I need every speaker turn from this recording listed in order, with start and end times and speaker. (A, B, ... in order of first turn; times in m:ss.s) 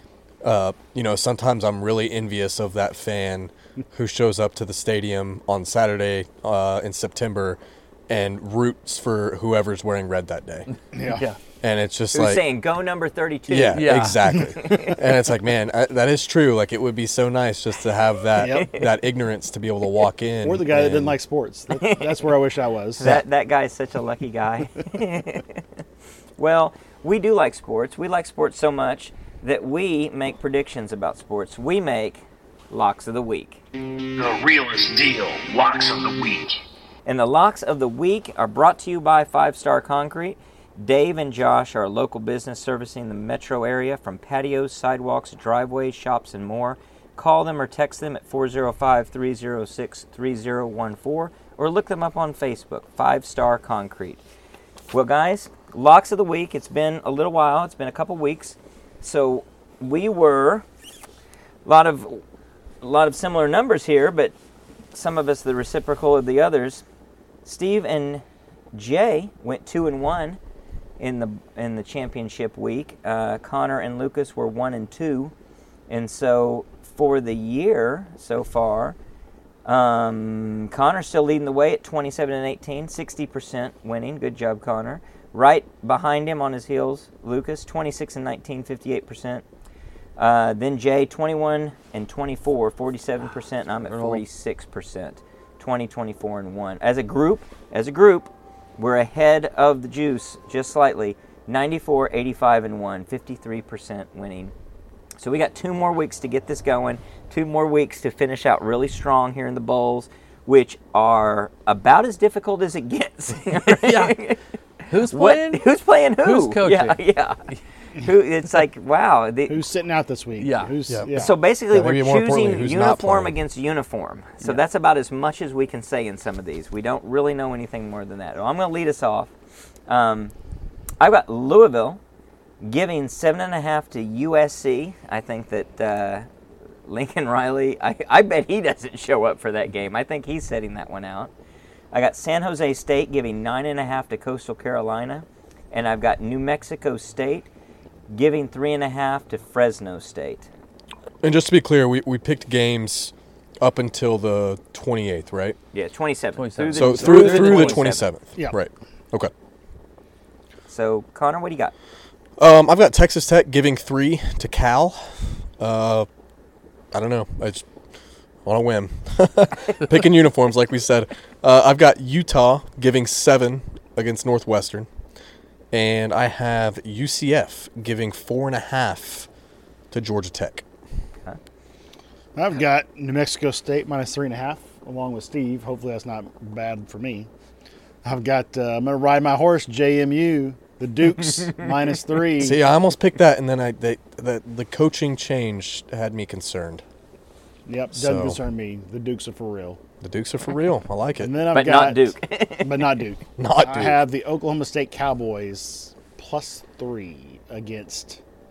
0:00.4-0:10.7 A
0:10.9-0:11.2 B
0:11.0-0:11.4 C
0:11.6-0:12.4 A
0:12.1-0:15.0 D
0:13.5-0:21.2 A
0:13.7-0:14.4 C
0:18.4-0:18.7 B
0:18.4-0:18.9 D
0:20.4-0:23.2 B
0:21.7-0:22.3 D
0:23.0-0:25.6 D
0:26.4-0:33.6 D
0:34.2-0:36.6 E
0:37.1-0:54.2 D
0:54.9-1:00.6 D
1:01.6-1:02.2 D
1:02.8-1:04.3 D
1:04.9-1:06.8 D
1:07.4-1:10.4 D
1:11.0-1:15.3 D
1:15.9-1:19.0 D
1:19.7-1:29.4 D
1:30.2-1:44.5 D
1:33.9-1:34.2 C
1:45.2-1:54.4 D
1:53.7-1:54.2 C
1:54.9-1:55.6 C
1:54.9-1:59.6 D
1:56.2-1:57.0 C
1:59.5-2:01.4 B
2:00.4-2:00.8 C
2:00.9-2:03.4 A
2:01.1-2:09.3 D
2:09.9-2:10.3 D
2:11.0-2:12.0 D
2:12.6-2:16.3 D
2:16.9-2:21.3 D
2:21.9-2:27.5 D
2:28.1-2:30.5 D
2:31.2-2:35.6 A
2:35.7-2:38.1 D
2:36.4-2:37.9 C
2:36.7-2:39.3 A
2:40.7-2:41.7 D
2:42.4-2:46.1 A
2:46.9-2:47.7 A
2:48.4-2:54.9 A
2:55.7-2:59.3 A
2:59.9-3:00.6 A
3:02.4-3:07.3 B
3:08.0-3:12.6 B
3:12.4-3:16.8 A
3:17.7-3:19.8 B
3:17.9-3:18.4 A
3:20.0-3:21.3 A
3:21.2-3:28.2 B
3:21.5-3:23.0 D
3:23.4-3:24.0 A